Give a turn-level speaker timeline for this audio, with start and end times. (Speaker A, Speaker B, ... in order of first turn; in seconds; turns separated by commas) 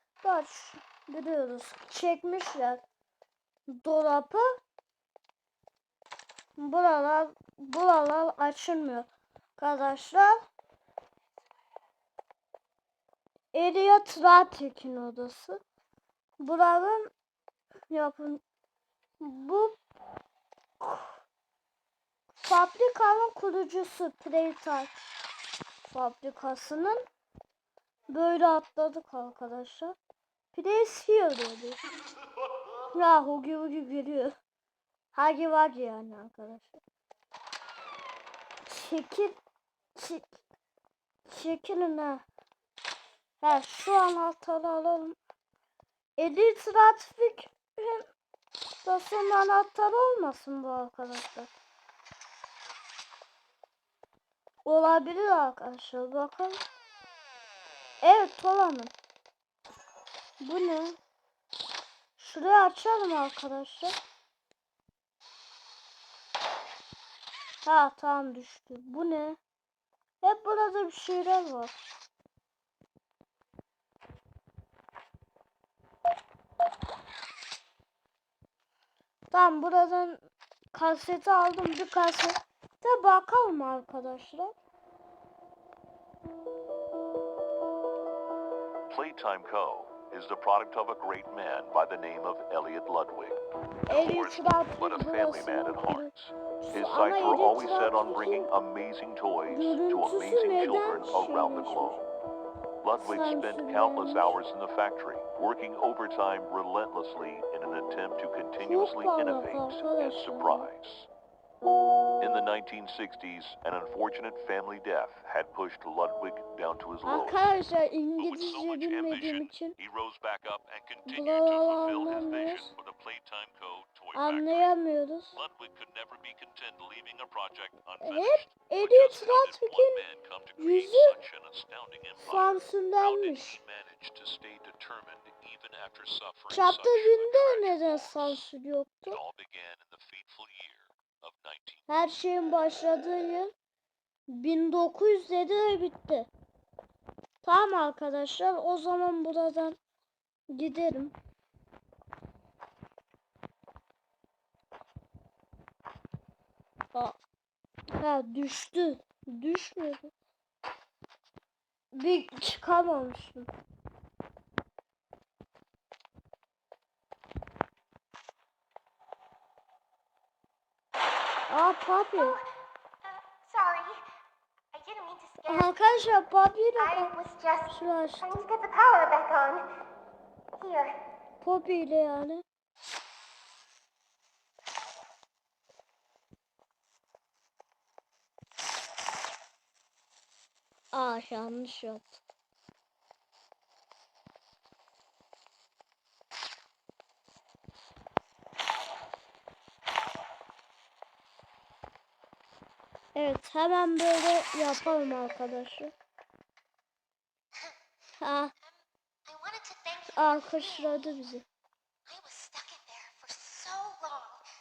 Speaker A: 0.2-2.8, Speaker A: 3.7-4.5, Speaker A: 6.6-10.4, Speaker A: 13.5-15.6, Speaker A: 16.4-17.1, Speaker A: 17.9-18.4, Speaker A: 19.2-19.8, Speaker A: 20.8-21.2, Speaker A: 22.4-24.9, Speaker A: 25.9-27.0, Speaker A: 28.1-30.0, Speaker A: 30.5-31.8, Speaker A: 32.9-34.4, Speaker A: 35.1-36.8, Speaker A: 38.7-39.4, Speaker A: 40.0-40.4, Speaker A: 41.3-42.2, Speaker A: 43.4-45.2, Speaker A: 46.2-48.1, Speaker A: 48.8-51.5, Speaker A: 54.7-56.6, Speaker A: 58.0-58.9, Speaker A: 60.4-61.0, Speaker A: 62.2-64.0, Speaker A: 67.7-69.4, Speaker A: 70.2-71.7, Speaker A: 79.3-84.5, Speaker B: 88.9-102.0, Speaker A: 93.9-98.5, Speaker A: 99.5-102.0, Speaker B: 102.8-111.1, Speaker A: 103.0-104.4, Speaker A: 108.6-110.7, Speaker B: 112.2-117.4, Speaker A: 117.0-119.8, Speaker B: 118.2-124.8, Speaker A: 121.1-122.7, Speaker A: 124.1-125.4, Speaker B: 125.3-138.4, Speaker A: 128.0-130.0, Speaker A: 130.6-131.2, Speaker A: 132.2-133.6, Speaker A: 136.5-139.2, Speaker B: 139.1-141.9, Speaker A: 141.9-143.5, Speaker A: 144.3-146.3, Speaker A: 147.4-149.8, Speaker A: 150.5-151.1, Speaker A: 158.0-160.1, Speaker A: 161.9-163.5, Speaker A: 171.5-172.4, Speaker C: 172.2-172.4, Speaker C: 173.0-174.0, Speaker C: 174.7-176.1, Speaker A: 175.5-177.1, Speaker C: 176.8-179.7, Speaker A: 177.7-178.4, Speaker C: 180.6-180.9, Speaker A: 181.4-182.4, Speaker A: 190.9-192.2, Speaker A: 203.2-205.9, Speaker A: 208.2-208.5, Speaker C: 209.3-211.2, Speaker A: 210.2-211.4, Speaker C: 212.1-214.4